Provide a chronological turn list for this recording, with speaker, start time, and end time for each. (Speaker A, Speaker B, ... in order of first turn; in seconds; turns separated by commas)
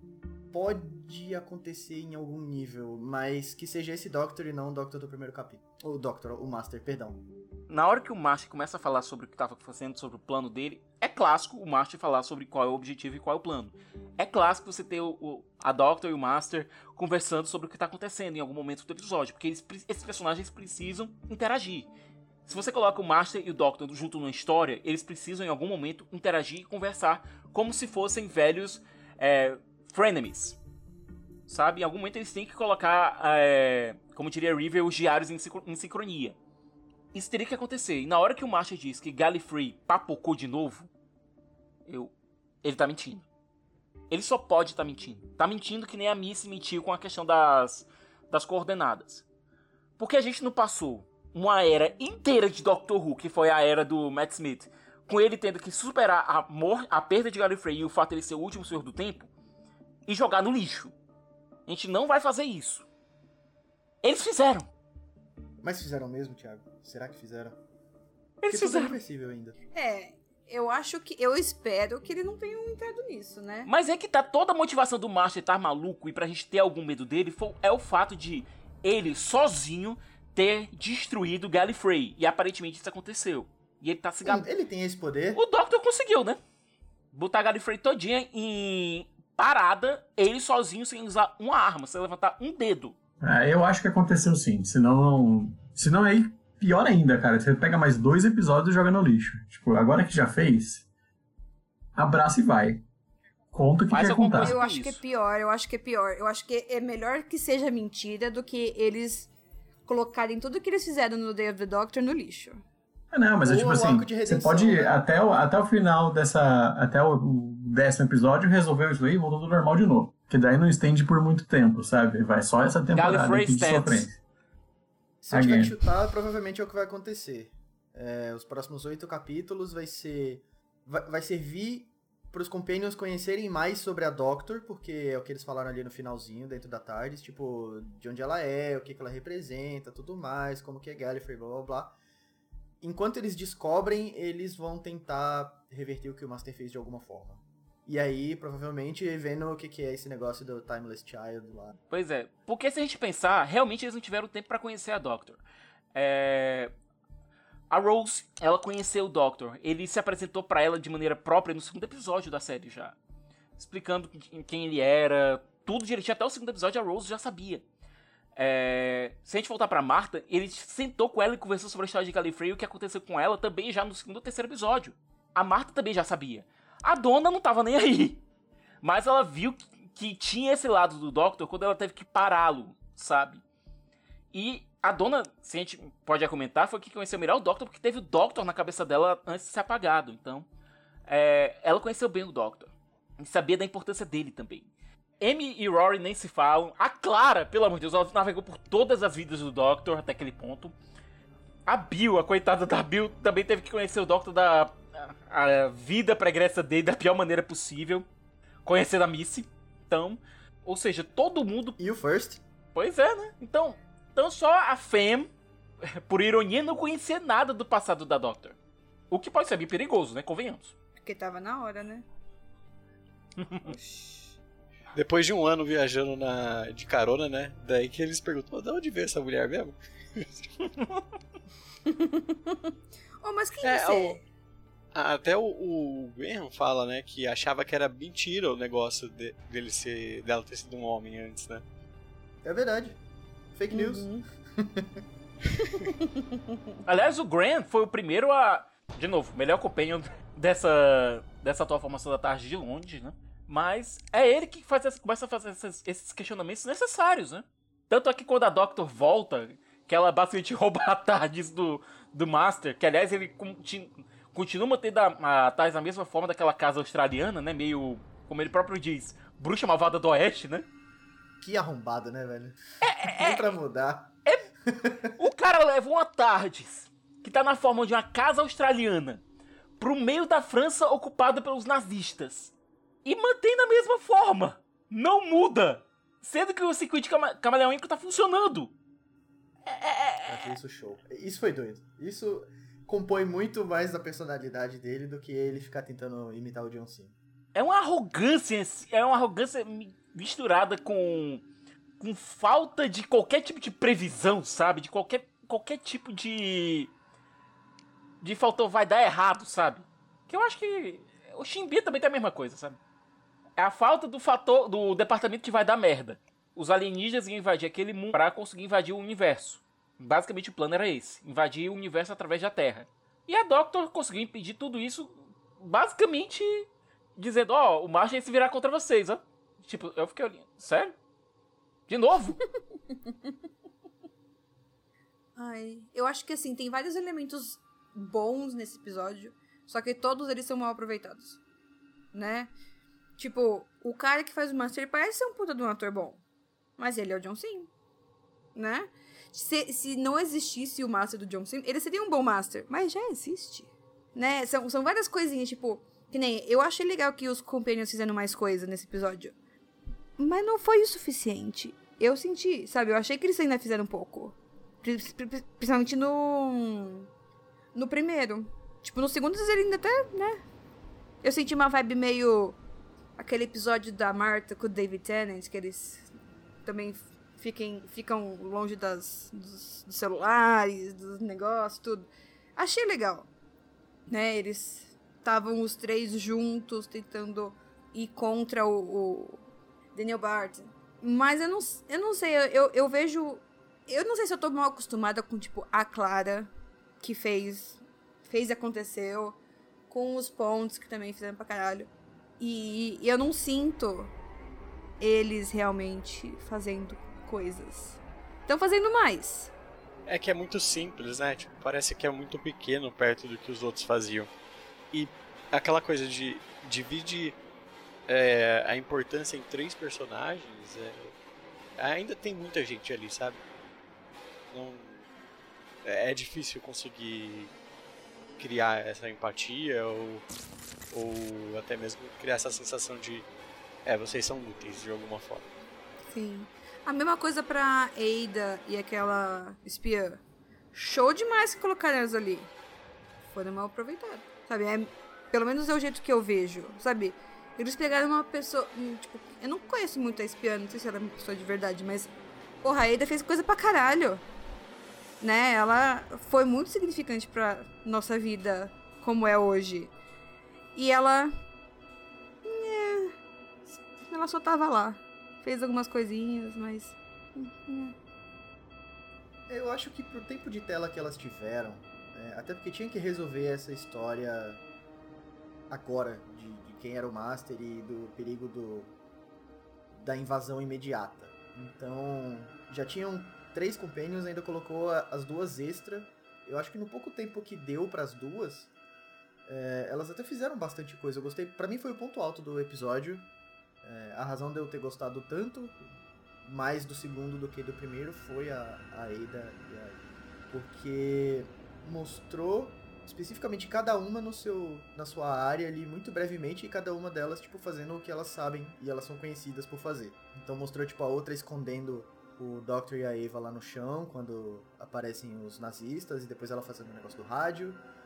Speaker A: 0.5-7.2, Speaker B: 7.7-21.9, Speaker B: 22.4-30.6, Speaker B: 31.5-36.4, Speaker B: 37.1-40.9, Speaker B: 41.9-43.2, Speaker B: 44.1-49.2, Speaker B: 50.0-59.3, Speaker B: 60.1-60.9, Speaker B: 61.7-62.9, Speaker B: 64.0-64.7, Speaker A: 65.6-67.6, Speaker B: 68.4-69.0, Speaker A: 68.5-69.5, Speaker C: 69.7-73.7, Speaker B: 73.7-84.4, Speaker A: 84.2-85.4, Speaker B: 85.3-86.4, Speaker B: 87.1-92.9, Speaker D: 93.2-100.8, Speaker D: 101.9-102.8, Speaker D: 103.5-104.6, Speaker B: 103.9-105.0, Speaker C: 104.4-109.3, Speaker C: 109.8-112.6, Speaker D: 113.1-124.2, Speaker A: 113.4-115.0, Speaker B: 122.9-124.1, Speaker A: 125.2-141.9, Speaker D: 125.3-125.8, Speaker A: 142.8-151.7, Speaker B: 151.9-155.4, Speaker B: 155.9-156.7, Speaker B: 157.7-162.9, Speaker B: 163.6-167.6, Speaker B: 168.4-178.2, Speaker B: 178.8-183.4, Speaker B: 184.3-190.4, Speaker B: 191.1-194.7, Speaker B: 195.2-200.7, Speaker B: 201.7-208.1, Speaker B: 208.6-211.8, Speaker A: 211.8-212.4, Speaker B: 212.7-215.3, Speaker B: 215.8-218.6, Speaker B: 219.1-220.7, Speaker C: 221.0-222.0, Speaker B: 223.4-223.7, Speaker E: 224.9-230.5, Speaker C: 231.9-234.2, Speaker E: 233.6-234.2, Speaker E: 234.9-241.6, Speaker A: 242.4-243.0, Speaker A: 243.5-244.9, Speaker C: 243.7-244.2, Speaker C: 246.1-246.4, Speaker B: 246.8-270.7, Speaker A: 271.4-274.1, Speaker B: 272.8-273.5, Speaker A: 274.7-275.1, Speaker B: 275.2-279.2, Speaker B: 279.8-282.5, Speaker B: 283.0-288.7, Speaker B: 289.7-290.5, Speaker A: 290.2-297.1, Speaker B: 297.5-301.4, Speaker B: 302.0-306.9, Speaker B: 308.2-312.8, Speaker B: 313.6-330.9, Speaker B: 331.9-332.4, Speaker C: 335.4-341.4, Speaker C: 342.1-342.5, Speaker C: 343.2-346.2, Speaker C: 346.8-347.7, Speaker C: 348.5-359.3, Speaker C: 360.2-367.1, Speaker C: 367.7-370.4, Speaker C: 371.2-372.6, Speaker C: 373.2-376.1, Speaker C: 376.6-383.3, Speaker C: 384.1-389.4, Speaker C: 389.9-399.4, Speaker C: 399.9-404.1, Speaker C: 405.0-409.5, Speaker E: 410.1-414.3, Speaker E: 414.9-417.4, Speaker E: 418.1-421.1, Speaker E: 421.8-423.4, Speaker E: 424.5-425.1, Speaker E: 425.8-427.5, Speaker E: 428.4-430.2, Speaker E: 430.9-433.3, Speaker E: 433.9-435.5, Speaker C: 436.1-440.2, Speaker C: 440.7-442.5, Speaker C: 443.3-452.1, Speaker C: 452.6-454.2, Speaker C: 455.2-459.9, Speaker C: 460.7-461.3, Speaker C: 462.4-463.1, Speaker C: 463.7-467.9, Speaker A: 469.5-474.6, Speaker A: 475.7-478.9, Speaker A: 479.9-488.7, Speaker A: 489.4-493.3, Speaker A: 493.8-495.8, Speaker A: 496.4-517.8